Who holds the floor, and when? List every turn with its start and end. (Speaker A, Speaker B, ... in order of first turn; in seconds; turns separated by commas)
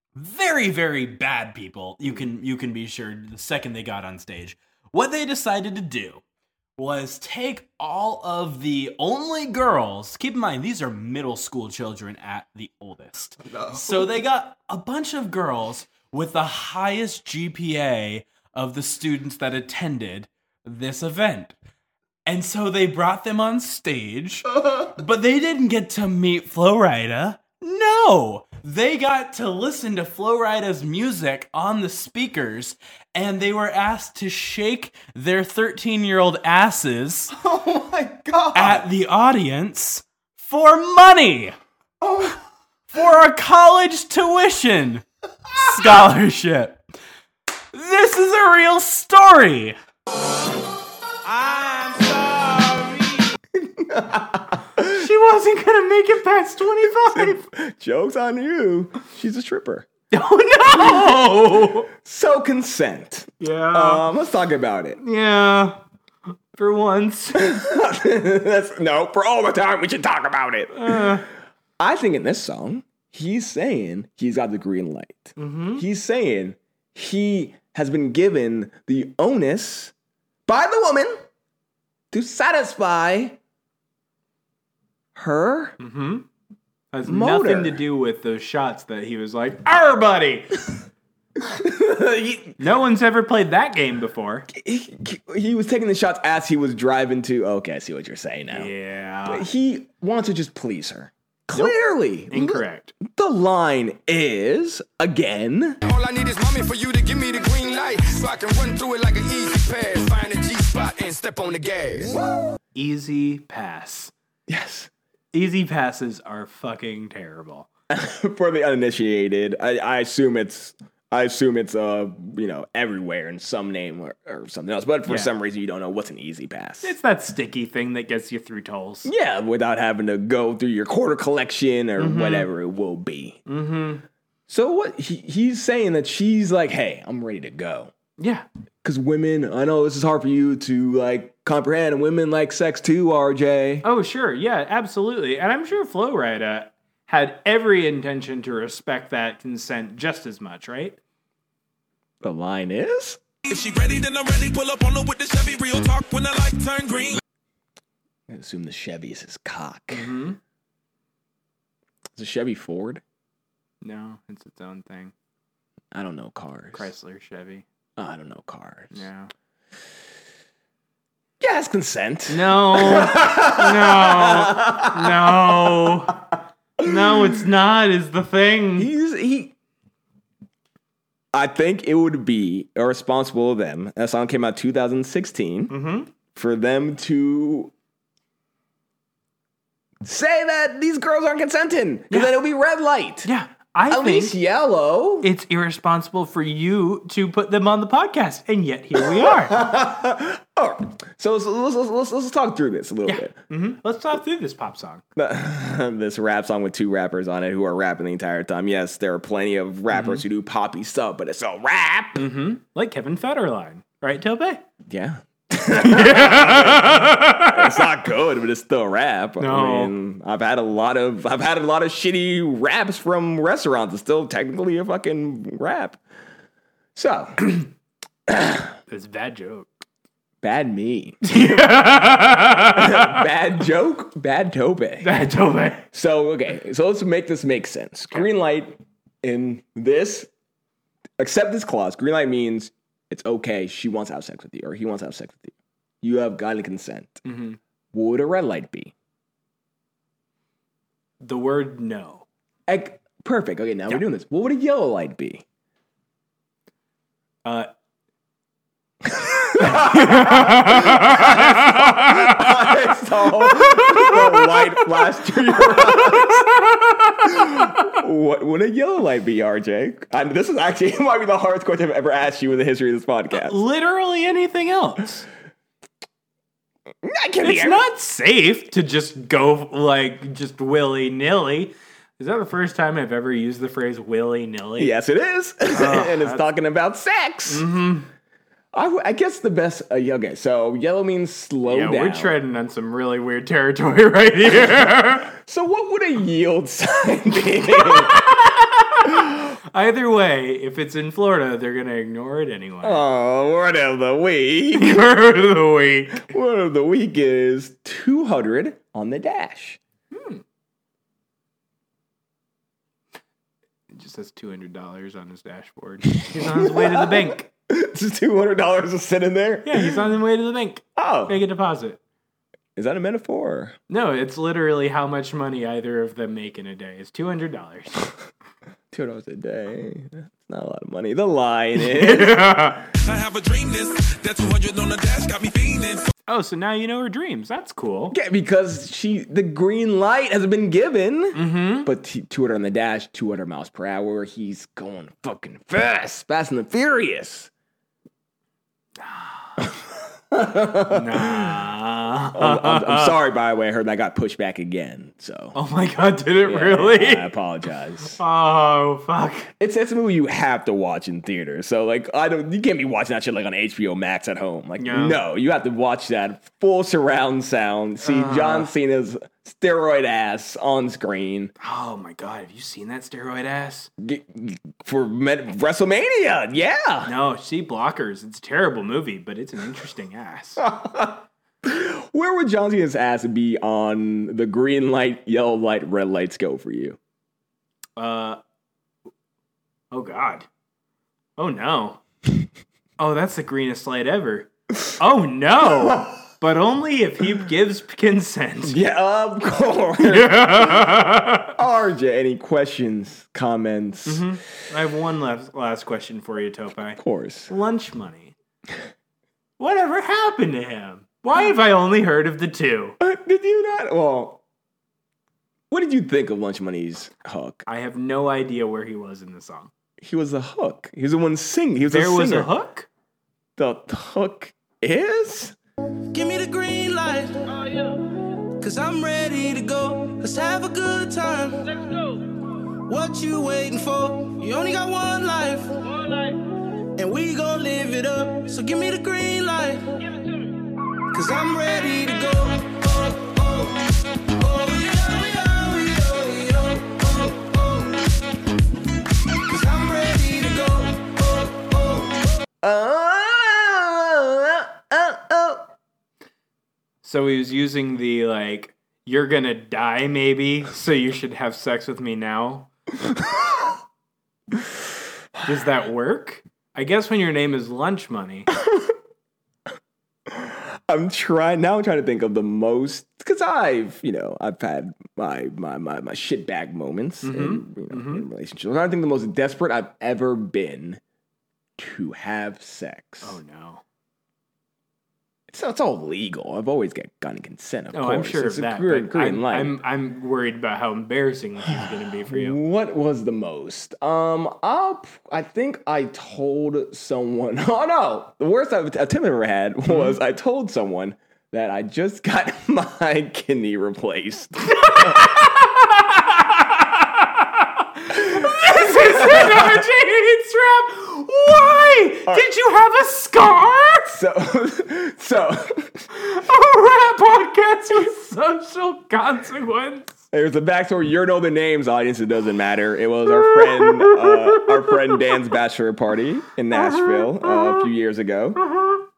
Speaker A: 0.1-6.2, Speaker A: 6.8-21.5, Speaker A: 22.2-37.3, Speaker B: 37.3-38.9, Speaker A: 38.5-41.6, Speaker B: 42.0-42.4, Speaker A: 42.9-45.0, Speaker A: 45.6-46.8, Speaker A: 47.7-49.7, Speaker A: 51.5-53.2, Speaker B: 53.5-55.0, Speaker A: 54.8-57.4, Speaker B: 56.9-59.9, Speaker A: 60.1-61.9, Speaker B: 61.9-65.0, Speaker A: 63.4-64.1, Speaker A: 65.0-65.8, Speaker A: 66.5-67.5, Speaker B: 67.3-71.2, Speaker A: 70.7-71.2, Speaker B: 71.8-79.9, Speaker A: 75.4-75.8, Speaker B: 80.5-81.2, Speaker B: 82.1-83.4, Speaker B: 85.1-85.8, Speaker A: 85.8-86.2, Speaker A: 86.9-90.5, Speaker B: 87.0-87.8, Speaker B: 91.4-92.6, Speaker A: 92.6-94.5, Speaker B: 94.5-98.7, Speaker A: 98.5-99.5, Speaker B: 99.3-105.8, Speaker A: 102.3-103.0, Speaker C: 105.8-112.2, Speaker A: 112.7-114.1, Speaker B: 114.5-114.9, Speaker A: 115.3-117.7, Speaker B: 117.9-126.9, Speaker A: 125.0-125.3, Speaker A: 126.8-129.1, Speaker B: 129.0-133.4, Speaker A: 132.0-132.5, Speaker A: 133.5-134.0, Speaker B: 134.5-137.9, Speaker A: 138.2-138.4, Speaker B: 138.8-143.8, Speaker A: 143.8-151.0, Speaker B: 152.2-153.2, Speaker D: 153.4-157.2, Speaker B: 158.3-160.1, Speaker A: 159.9-160.4, Speaker B: 162.1-163.0, Speaker A: 163.8-165.1, Speaker B: 165.9-166.9, Speaker A: 166.7-167.6, Speaker B: 168.0-169.1, Speaker A: 168.9-169.3, Speaker B: 171.4-176.0, Speaker A: 172.3-176.2, Speaker A: 176.8-178.9, Speaker B: 176.8-177.4, Speaker B: 178.8-179.5, Speaker B: 181.3-185.7, Speaker A: 185.7-186.1, Speaker B: 186.3-187.7, Speaker B: 190.0-193.3, Speaker A: 193.2-194.3, Speaker B: 193.9-195.3, Speaker A: 195.2-199.6, Speaker B: 198.9-203.3, Speaker A: 203.1-205.0, Speaker B: 205.2-212.3, Speaker A: 209.9-210.2, Speaker A: 212.2-214.6, Speaker B: 214.9-226.0, Speaker A: 215.8-217.8, Speaker A: 219.4-219.9, Speaker B: 226.9-227.7, Speaker B: 228.3-228.7, Speaker A: 228.9-229.7, Speaker B: 230.4-231.2, Speaker A: 231.2-233.1, Speaker B: 232.7-235.2, Speaker A: 235.0-235.8, Speaker B: 235.9-240.3, Speaker B: 241.2-247.2, Speaker A: 247.2-247.6, Speaker B: 247.9-248.9, Speaker A: 251.2-252.2, Speaker B: 252.7-255.4, Speaker A: 257.4-257.7, Speaker B: 259.0-266.5, Speaker A: 259.6-262.6, Speaker A: 263.5-264.8, Speaker A: 265.5-267.9, Speaker B: 267.2-273.6, Speaker A: 273.3-275.2, Speaker B: 277.0-277.9, Speaker A: 277.4-284.9, Speaker B: 284.8-287.7, Speaker A: 285.7-286.4, Speaker A: 287.5-288.1, Speaker B: 288.7-292.4, Speaker A: 291.6-295.3, Speaker B: 294.5-298.2, Speaker A: 297.7-303.0, Speaker B: 299.1-299.4, Speaker B: 302.8-305.1, Speaker A: 304.7-306.3, Speaker B: 306.1-309.8, Speaker A: 310.1-310.4, Speaker A: 313.9-317.5, Speaker B: 316.2-320.1, Speaker A: 319.6-322.0, Speaker B: 320.9-321.4, Speaker B: 322.8-323.8, Speaker A: 323.9-328.1, Speaker B: 328.9-332.7, Speaker A: 331.7-332.9, Speaker D: 333.0-336.1, Speaker A: 336.3-338.1, Speaker B: 338.1-347.5, Speaker A: 341.3-341.9, Speaker B: 349.6-351.6, Speaker A: 350.9-353.2, Speaker B: 352.3-355.6, Speaker A: 355.5-357.3, Speaker B: 356.4-358.2, Speaker A: 358.2-359.5, Speaker B: 359.6-371.5, Speaker A: 364.8-365.2, Speaker A: 368.0-368.7, Speaker A: 371.6-373.9, Speaker B: 374.0-377.1, Speaker A: 377.0-380.6, Speaker B: 380.6-387.0, Speaker A: 388.0-388.4, Speaker A: 389.9-390.4, Speaker A: 391.4-392.0, Speaker A: 393.0-398.8, Speaker B: 395.6-396.2, Speaker B: 398.6-401.0, Speaker A: 400.0-401.5, Speaker B: 401.5-404.4, Speaker A: 404.1-408.3, Speaker B: 406.9-407.5, Speaker A: 409.6-412.9, Speaker B: 413.0-414.4, Speaker B: 415.7-417.6, Speaker A: 417.6-419.7, Speaker B: 420.0-422.5, Speaker A: 421.8-422.9, Speaker B: 423.6-425.6, Speaker E: 426.1-428.0, Speaker E: 428.6-432.2, Speaker E: 432.9-436.4, Speaker E: 436.9-440.5, Speaker E: 441.1-448.1, Speaker E: 449.3-452.4, Speaker B: 452.6-455.7, Speaker A: 457.0-462.7, Speaker B: 463.1-463.7, Speaker A: 465.4-468.5, Speaker B: 468.5-468.9, Speaker B: 470.3-481.0, Speaker A: 477.2-478.2, Speaker B: 481.8-483.4, Speaker A: 483.2-483.8, Speaker B: 485.5-489.8, Speaker A: 487.9-492.6, Speaker B: 491.7-505.2, Speaker A: 504.8-506.4, Speaker A: 507.1-514.1, Speaker B: 508.1-509.8, Speaker B: 514.1-516.0, Speaker A: 516.1-520.1, Speaker B: 520.3-528.7, Speaker A: 523.3-525.4, Speaker A: 526.7-527.9